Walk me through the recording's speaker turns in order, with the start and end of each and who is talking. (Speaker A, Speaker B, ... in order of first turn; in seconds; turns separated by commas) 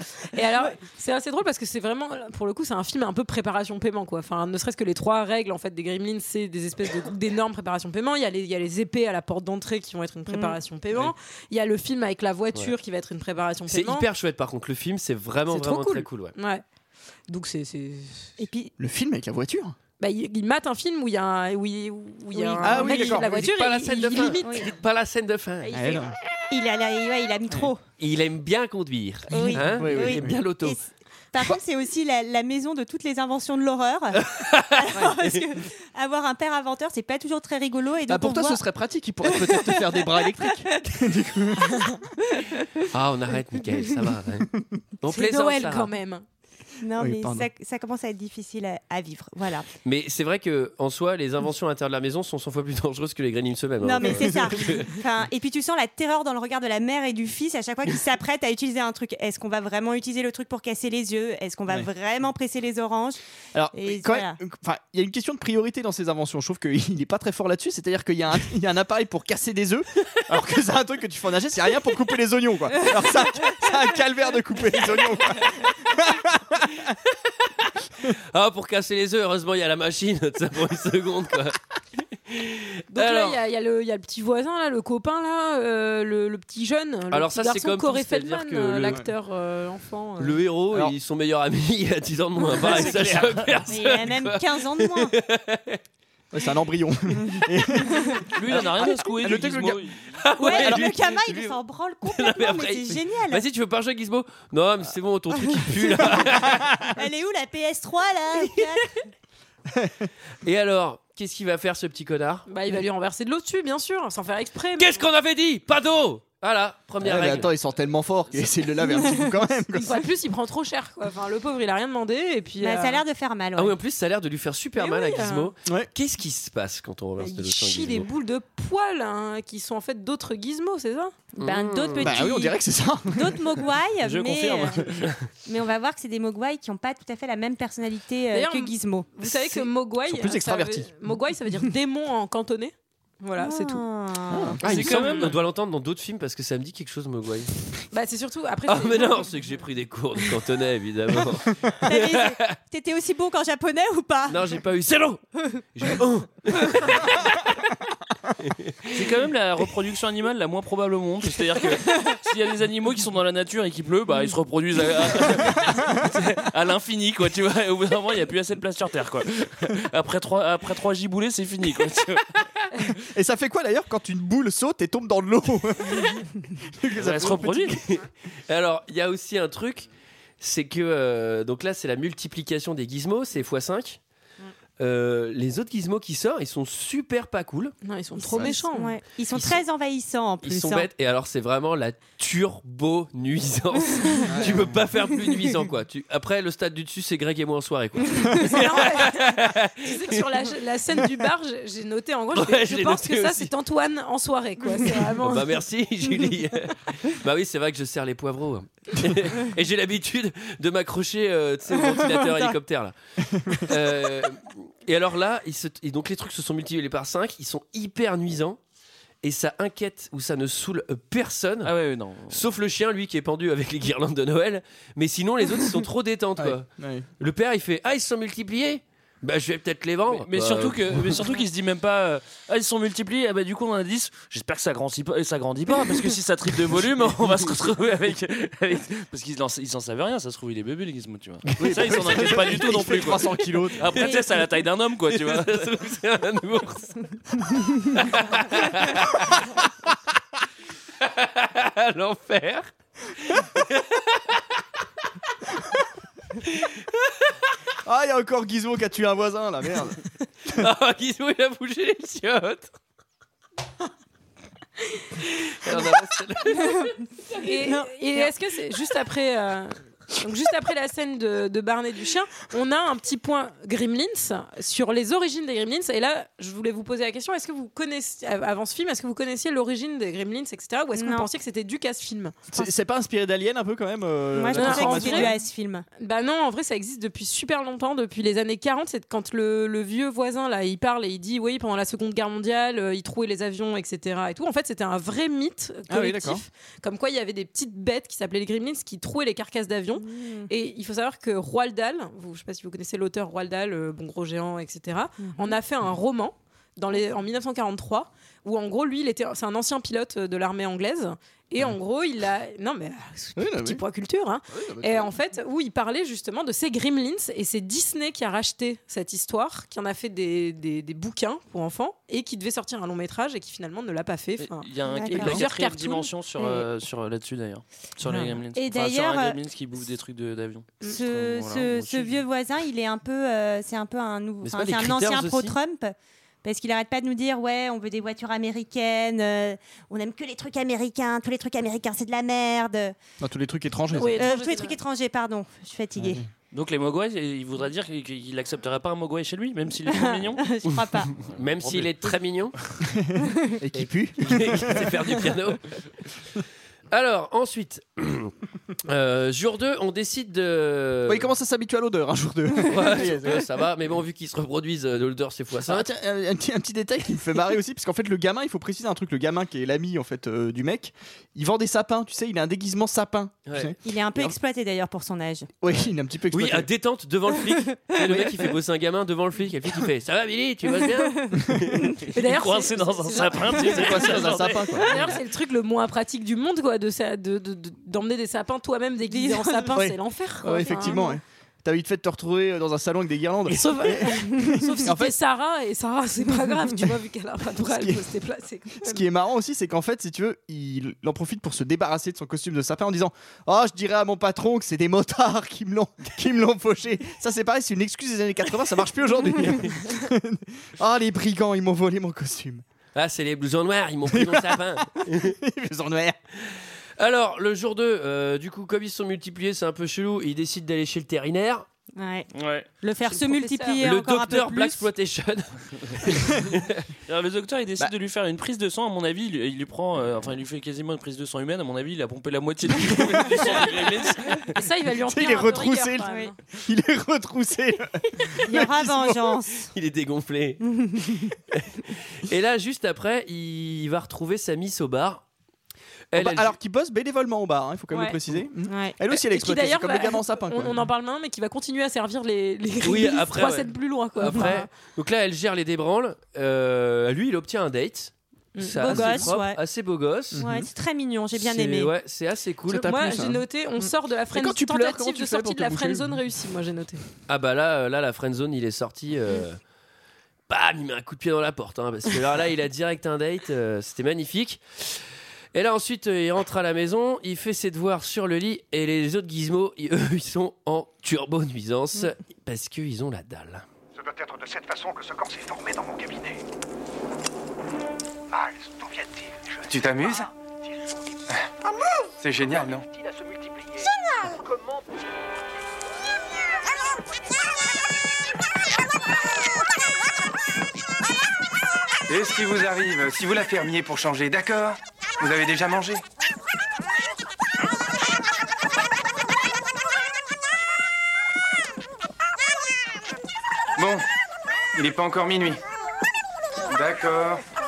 Speaker A: 0.3-14.1, Speaker B: 10.3-10.6, Speaker C: 13.7-16.4, Speaker A: 15.5-16.6, Speaker A: 17.3-18.3, Speaker B: 18.4-18.7, Speaker D: 18.8-19.8, Speaker A: 20.0-24.7, Speaker C: 22.4-25.8, Speaker D: 22.6-23.5, Speaker A: 25.6-26.1, Speaker D: 25.7-26.1, Speaker B: 26.5-27.8, Speaker C: 28.0-30.8, Speaker D: 29.3-30.4, Speaker B: 29.3-30.8, Speaker B: 31.3-38.6, Speaker C: 34.3-35.4, Speaker D: 38.1-42.0, Speaker C: 42.9-44.5, Speaker C: 45.0-45.9, Speaker A: 45.1-46.2, Speaker B: 46.8-49.7, Speaker D: 47.0-47.5, Speaker C: 49.9-54.9, Speaker B: 53.8-63.2, Speaker D: 54.0-54.6, Speaker D: 63.5-76.9, Speaker B: 63.7-64.4, Speaker C: 78.3-81.6, Speaker C: 82.3-83.4, Speaker A: 82.9-90.5, Speaker C: 87.1-89.0, Speaker C: 90.2-95.8, Speaker A: 92.5-93.1, Speaker B: 93.7-95.1, Speaker D: 96.3-99.8, Speaker E: 98.3-100.2, Speaker C: 100.2-101.2, Speaker B: 100.4-103.4, Speaker D: 100.5-101.5, Speaker C: 102.1-107.0, Speaker B: 105.9-106.4, Speaker B: 106.9-108.9, Speaker D: 109.7-110.1, Speaker C: 110.4-112.5, Speaker A: 112.5-115.1, Speaker C: 114.8-117.5, Speaker D: 117.0-120.0, Speaker A: 118.8-123.0, Speaker B: 122.6-123.8, Speaker C: 123.6-128.1, Speaker A: 124.8-125.5, Speaker A: 127.2-131.2, Speaker C: 131.4-132.2, Speaker B: 131.4-132.6, Speaker D: 132.0-133.5, Speaker B: 133.1-139.1, Speaker E: 134.0-135.2, Speaker A: 138.3-143.8, Speaker D: 139.2-141.6, Speaker B: 143.4-144.6, Speaker D: 144.3-144.6, Speaker C: 144.6-147.5, Speaker E: 144.6-145.4, Speaker A: 147.9-149.5, Speaker C: 148.7-152.5, Speaker B: 151.8-154.6, Speaker C: 154.3-155.2, Speaker C: 155.8-157.5, Speaker C: 158.4-158.9, Speaker E: 158.9-172.3, Speaker D: 173.0-177.8, Speaker E: 177.0-177.8, Speaker C: 177.8-179.9, Speaker C: 180.4-184.0, Speaker C: 184.8-187.7, Speaker A: 187.8-189.0, Speaker B: 188.2-190.9, Speaker C: 189.3-189.6, Speaker C: 190.4-200.2, Speaker D: 194.3-194.7, Speaker A: 198.3-205.6, Speaker C: 202.3-203.5, Speaker C: 205.2-212.9, Speaker B: 212.1-212.4, Speaker D: 213.3-213.6, Speaker C: 213.5-218.6, Speaker C: 219.2-221.7, Speaker E: 221.6-222.4, Speaker C: 222.3-226.7, Speaker D: 226.4-227.1, Speaker C: 227.2-231.2, Speaker E: 230.1-245.7, Speaker D: 241.5-243.9, Speaker C: 245.1-247.0, Speaker C: 247.9-249.5, Speaker C: 251.0-254.4, Speaker D: 257.8-260.0, Speaker C: 260.5-262.7, Speaker C: 265.4-266.9, Speaker A: 267.4-282.4, Speaker B: 267.6-268.2, Speaker B: 281.0-281.3, Speaker D: 282.5-285.4, Speaker B: 284.3-285.9, Speaker A: 284.5-285.4, Speaker A: 286.0-326.1, Speaker D: 295.9-296.4, Speaker B: 300.0-300.5, Speaker B: 305.2-305.6, Speaker D: 313.4-313.8, Speaker D: 314.5-315.1, Speaker E: 324.4-332.2, Speaker B: 324.9-325.4, Speaker B: 326.4-326.6, Speaker B: 328.5-329.4, Speaker B: 330.8-342.9, Speaker C: 334.4-335.6, Speaker D: 343.2-344.3, Speaker A: 343.9-344.8, Speaker B: 344.2-346.2, Speaker D: 346.0-346.3, Speaker E: 346.5-350.5, Speaker B: 349.9-351.1, Speaker C: 351.1-352.6, Speaker E: 351.2-352.6, Speaker D: 352.9-355.3, Speaker C: 353.7-355.7, Speaker C: 356.9-358.3, Speaker C: 358.9-361.3, Speaker D: 361.1-363.5, Speaker C: 362.6-365.9, Speaker D: 365.6-374.4, Speaker C: 373.5-373.7, Speaker B: 373.8-375.5, Speaker D: 375.6-376.7, Speaker C: 376.3-382.1, Speaker D: 378.0-378.4, Speaker A: 382.1-391.2, Speaker E: 382.1-385.1, Speaker D: 383.5-385.0, Speaker B: 389.1-389.8, Speaker D: 389.7-395.1, Speaker B: 390.7-391.1, Speaker A: 393.5-399.0, Speaker D: 397.6-398.1, Speaker D: 398.8-412.6, Speaker C: 412.9-415.4, Speaker D: 414.1-416.2, Speaker C: 417.0-421.7, Speaker B: 422.0-422.3, Speaker E: 422.4-422.7, Speaker B: 422.8-424.9, Speaker A: 423.0-423.9, Speaker C: 423.8-426.8, Speaker E: 427.1-434.6, Speaker D: 432.8-433.5, Speaker A: 434.5-436.4, Speaker D: 435.0-439.4, Speaker B: 436.0-436.3, Speaker B: 438.5-439.7, Speaker C: 439.7-440.6, Speaker B: 440.6-441.3, Speaker C: 441.5-445.2, Speaker C: 446.1-446.5, Speaker D: 446.1-450.8, Speaker A: 447.9-448.2, Speaker B: 448.7-449.0, Speaker A: 449.2-454.7, Speaker C: 452.8-460.4, Speaker A: 458.6-459.3, Speaker B: 458.8-459.6, Speaker D: 460.3-460.7, Speaker B: 460.4-461.9, Speaker C: 461.4-463.0, Speaker D: 462.7-463.4, Speaker A: 462.8-467.0, Speaker D: 464.3-466.2, Speaker C: 467.3-469.6, Speaker C: 470.5-474.6, Speaker C: 475.5-483.6, Speaker F: 483.9-486.4, Speaker F: 488.3-490.3, Speaker G: 489.7-490.3, Speaker G: 492.2-492.9, Speaker F: 492.9-493.9, Speaker G: 502.1-506.0, Speaker G: 513.8-514.0, Speaker G: 514.8-515.6, Speaker G: 516.7-517.4